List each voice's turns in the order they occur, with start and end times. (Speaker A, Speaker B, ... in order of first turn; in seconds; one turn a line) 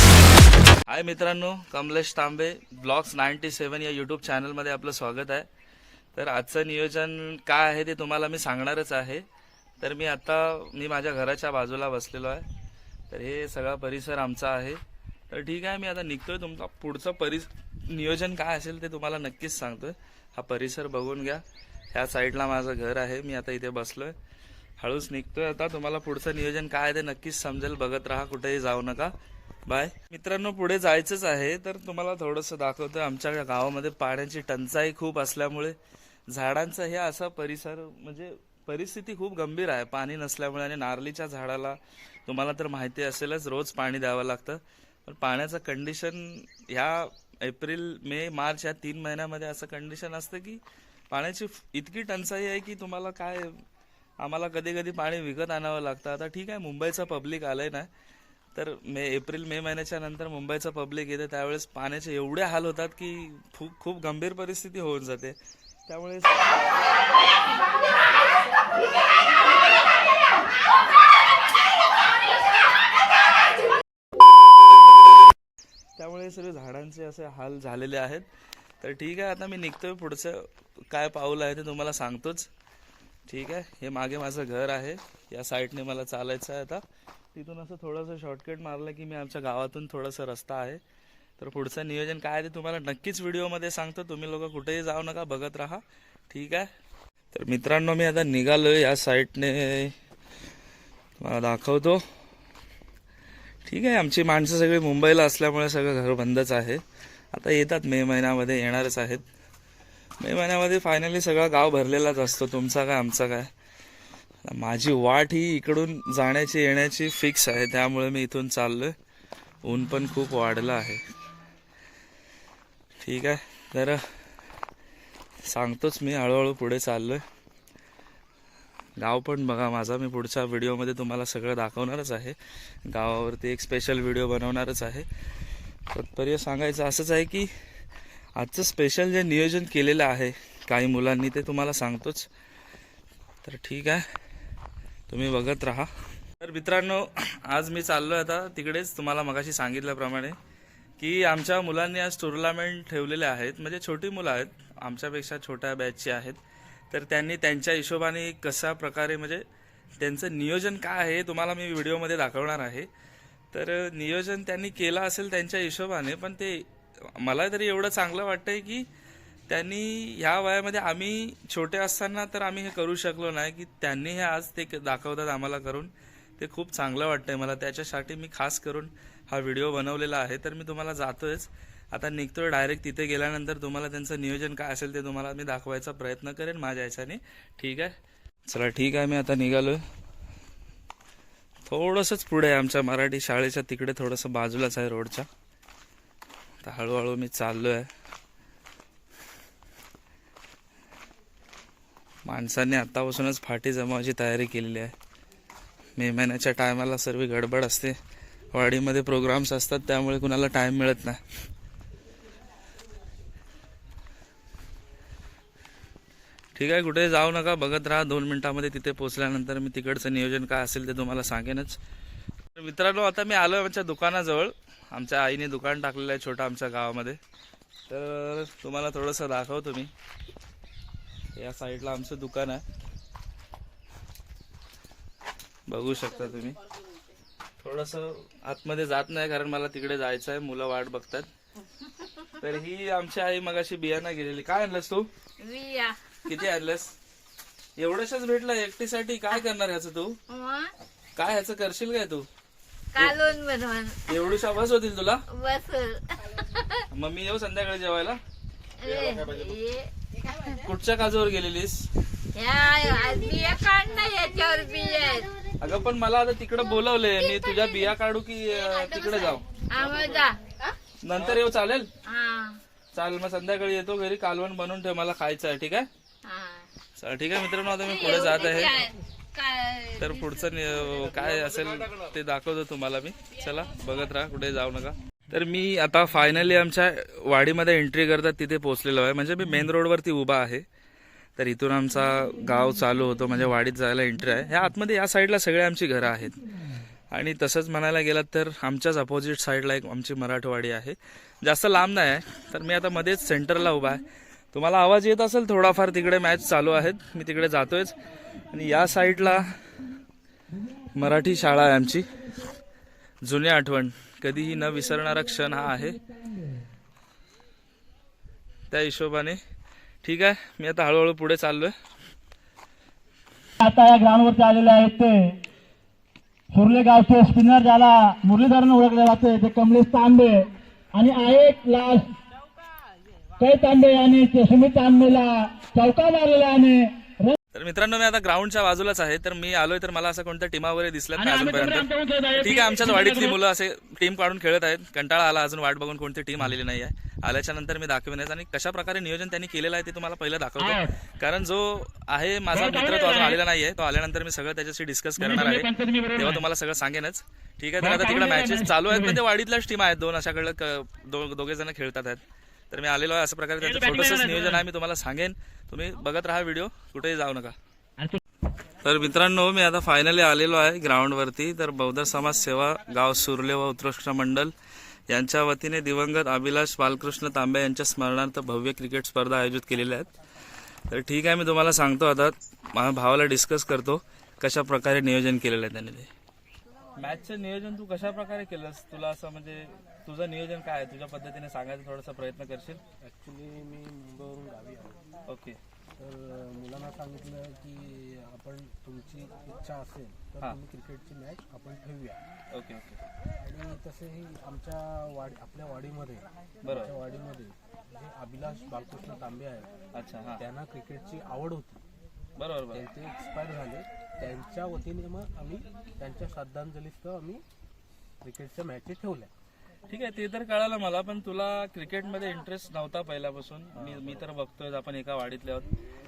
Speaker A: 0.9-5.5
Speaker A: 6.1-9.2
Speaker A: 9.8-12.4
Speaker A: 13.1-24.1
Speaker A: 24.8-29.1
Speaker A: 29.7-35.8
Speaker A: 36.3-53.5
Speaker A: 54.2-57.9
Speaker A: 58.5-65.3
Speaker A: 65.9-66.5
Speaker A: 76.0-78.2
Speaker A: 78.8-82.5
Speaker A: 83.3-86.8
Speaker A: 87.3-90.8
Speaker A: 91.4-96.7
Speaker A: 97.3-99.9
Speaker A: 101.2-102.0
Speaker A: 103.6-109.2
Speaker A: 110.2-113.5
Speaker A: 114.4-118.9
Speaker A: 119.6-121.0
Speaker A: 123.0-124.0
Speaker A: 125.5-127.2
Speaker A: 129.0-135.1
Speaker A: 135.9-137.5
Speaker A: 138.3-142.3
Speaker A: 143.4-144.0
Speaker A: 145.1-145.9
Speaker A: 146.4-150.3
Speaker A: 151.0-156.4
Speaker A: 156.9-159.4
Speaker A: 160.0-162.9
Speaker A: 163.5-168.8
Speaker A: 169.5-187.9
Speaker A: 188.5-189.8
Speaker A: 191.7-195.3
Speaker A: 196.6-197.9
Speaker A: 202.2-204.9
Speaker A: 206.0-207.9
Speaker A: 208.5-211.2
Speaker A: 216.5-221.8
Speaker A: 222.6-227.2
Speaker A: 227.9-229.9
Speaker A: 231.3-232.6
Speaker A: 235.7-236.6
Speaker A: 237.6-241.3
Speaker A: 242.4-245.1
Speaker B: 245.4-246.0
Speaker A: 246.2-246.9
Speaker A: 247.8-250.2
Speaker B: 250.3-250.7
Speaker A: 251.2-252.3
Speaker B: 252.9-254.0
Speaker A: 254.1-255.2
Speaker B: 255.3-256.8
Speaker A: 256.9-258.2
Speaker B: 258.8-259.9
Speaker A: 260.6-261.9
Speaker B: 262.3-265.3
Speaker A: 265.6-269.5
Speaker B: 268.9-270.7
Speaker A: 271.0-271.9
Speaker B: 272.0-272.6
Speaker A: 272.9-275.9
Speaker B: 276.2-276.7
Speaker A: 277.0-278.8
Speaker B: 277.8-280.5
Speaker A: 280.0-290.6
Speaker A: 291.4-296.4
Speaker A: 297.1-307.9
Speaker A: 308.5-309.5
Speaker A: 310.9-312.1
Speaker A: 313.2-316.0
Speaker A: 318.7-319.4
Speaker A: 320.0-321.7
Speaker C: 323.6-325.4
Speaker C: 326.5-332.1
Speaker C: 333.4-337.4
Speaker A: 337.5-367.5
Speaker C: 341.3-343.3
Speaker C: 350.6-350.9
Speaker C: 352.7-353.3
Speaker C: 355.2-356.4
Speaker C: 357.8-359.2
Speaker C: 363.6-364.5
Speaker A: 368.8-374.5
Speaker A: 375.1-380.1
Speaker A: 380.9-386.1
Speaker A: 387.0-392.8
Speaker D: 393.0-395.1
Speaker A: 395.3-395.6
Speaker D: 396.0-402.2
Speaker A: 402.5-403.0
Speaker D: 403.4-409.7
Speaker A: 406.6-406.9
Speaker A: 409.9-410.4
Speaker D: 410.4-411.8
Speaker A: 412.4-412.8
Speaker D: 412.7-417.4
Speaker D: 418.2-419.3
Speaker A: 419.9-425.7
Speaker D: 423.7-424.2